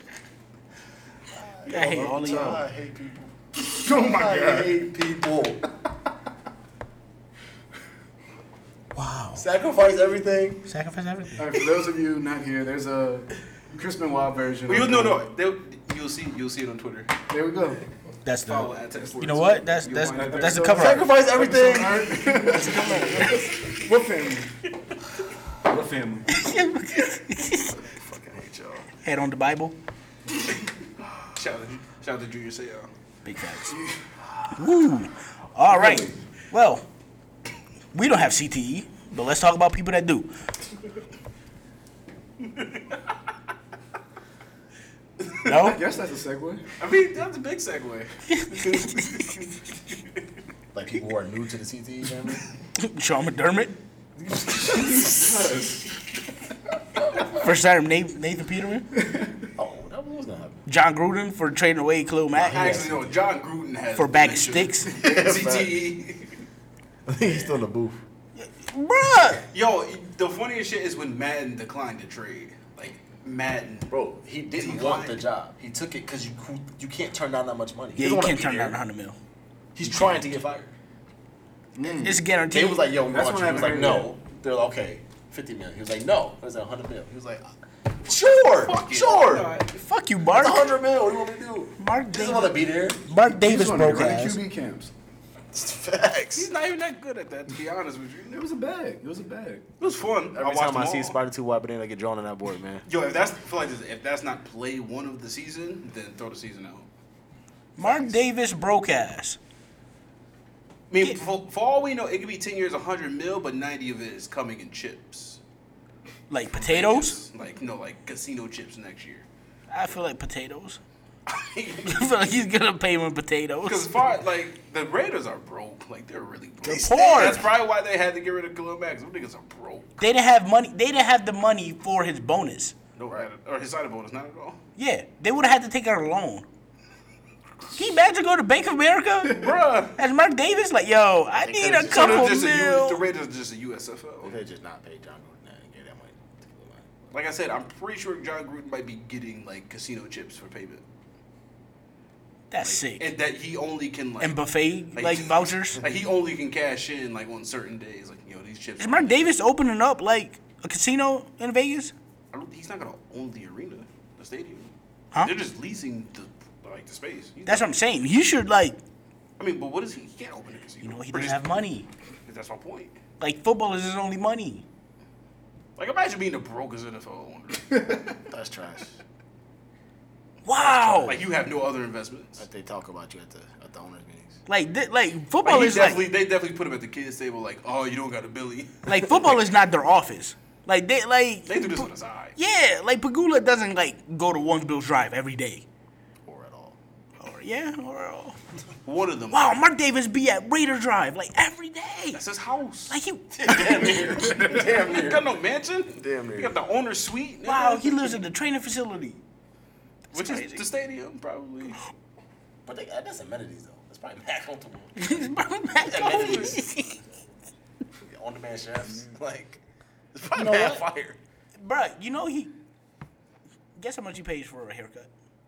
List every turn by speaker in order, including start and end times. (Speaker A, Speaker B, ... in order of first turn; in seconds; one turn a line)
Speaker A: 1.3-5.6
Speaker B: 1.7-2.6
Speaker C: 1.7-2.6
Speaker C: 3.6-4.8
Speaker B: 8.9-9.4
Speaker A: 9.3-10.7
Speaker B: 10.7-11.6
Speaker C: 11.4-15.2
Speaker D: 14.7-17.2
Speaker C: 17.3-17.8
Speaker B: 18.2-21.1
Speaker D: 18.4-20.5
Speaker C: 20.0-24.6
Speaker A: 20.7-23.4
Speaker D: 22.9-23.4
Speaker C: 25.6-26.6
Speaker B: 26.3-27.8
Speaker A: 27.8-28.9
Speaker B: 29.0-29.8
Speaker D: 31.3-32.9
Speaker B: 33.2-33.8
Speaker C: 33.7-34.0
Speaker B: 34.5-36.9
Speaker C: 35.6-36.2
Speaker B: 37.9-40.3
Speaker B: 45.4-45.8
Speaker C: 45.6-46.6
Speaker D: 46.8-49.6
Speaker B: 48.3-49.1
Speaker A: 50.7-52.5
Speaker B: 52.8-53.8
Speaker A: 54.5-55.5
Speaker C: 54.7-55.8
Speaker B: 57.3-58.9
Speaker A: 59.5-60.7
Speaker B: 60.7-62.8
Speaker A: 62.4-63.1
Speaker D: 62.5-66.4
Speaker B: 64.0-65.0
Speaker A: 64.9-65.8
Speaker A: 67.1-68.0
Speaker B: 68.4-69.5
Speaker D: 69.5-73.9
Speaker A: 73.9-78.8
Speaker D: 74.6-75.2
Speaker B: 78.0-79.2
Speaker A: 79.8-80.7
Speaker C: 81.8-82.2
Speaker B: 82.0-82.9
Speaker A: 82.5-87.5
Speaker C: 83.1-84.1
Speaker A: 88.0-89.6
Speaker D: 88.3-89.7
Speaker B: 89.7-90.8
Speaker A: 90.3-93.0
Speaker B: 91.8-94.4
Speaker C: 93.3-94.9
Speaker A: 95.5-96.5
Speaker D: 96.3-98.4
Speaker C: 98.3-99.7
Speaker D: 99.8-101.2
Speaker A: 100.3-102.9
Speaker D: 102.9-106.9
Speaker B: 107.8-109.4
Speaker D: 107.8-108.1
Speaker D: 110.9-115.4
Speaker B: 116.3-117.2
Speaker D: 116.5-119.2
Speaker B: 119.7-120.8
Speaker B: 121.8-124.0
Speaker D: 123.6-129.9
Speaker B: 126.6-127.4
Speaker A: 126.6-127.5
Speaker B: 130.0-132.8
Speaker A: 133.0-133.3
Speaker D: 133.0-134.6
Speaker B: 134.8-136.4
Speaker B: 137.7-143.0
Speaker D: 139.3-140.0
Speaker A: 141.4-142.5
Speaker D: 141.8-144.3
Speaker A: 144.2-146.9
Speaker D: 147.1-150.8
Speaker B: 152.5-153.1
Speaker D: 152.6-154.4
Speaker B: 154.2-155.8
Speaker D: 154.9-159.3
Speaker B: 158.8-161.9
Speaker D: 162.3-167.7
Speaker B: 167.4-168.8
Speaker D: 169.4-171.5
Speaker B: 170.8-171.9
Speaker D: 172.2-173.0
Speaker B: 173.2-174.7
Speaker D: 175.8-177.7
Speaker C: 177.7-178.1
Speaker A: 178.3-179.0
Speaker B: 180.4-181.2
Speaker D: 180.6-182.4
Speaker A: 182.4-184.4
Speaker B: 184.4-186.1
Speaker D: 185.4-189.2
Speaker B: 188.8-195.6
Speaker D: 191.5-192.4
Speaker A: 196.2-196.8
Speaker B: 197.2-198.4
Speaker D: 198.8-199.6
Speaker B: 199.3-202.2
Speaker D: 202.1-203.0
Speaker B: 202.9-204.0
Speaker A: 203.3-205.4
Speaker D: 204.4-208.2
Speaker A: 205.9-206.6
Speaker B: 207.4-209.2
Speaker B: 210.1-210.7
Speaker D: 210.1-211.8
Speaker A: 212.6-215.1
Speaker B: 214.9-217.0
Speaker A: 215.8-216.7
Speaker A: 218.0-219.6
Speaker C: 218.8-219.1
Speaker A: 220.1-221.2
Speaker B: 220.3-220.9
Speaker B: 221.6-222.5
Speaker B: 223.8-225.1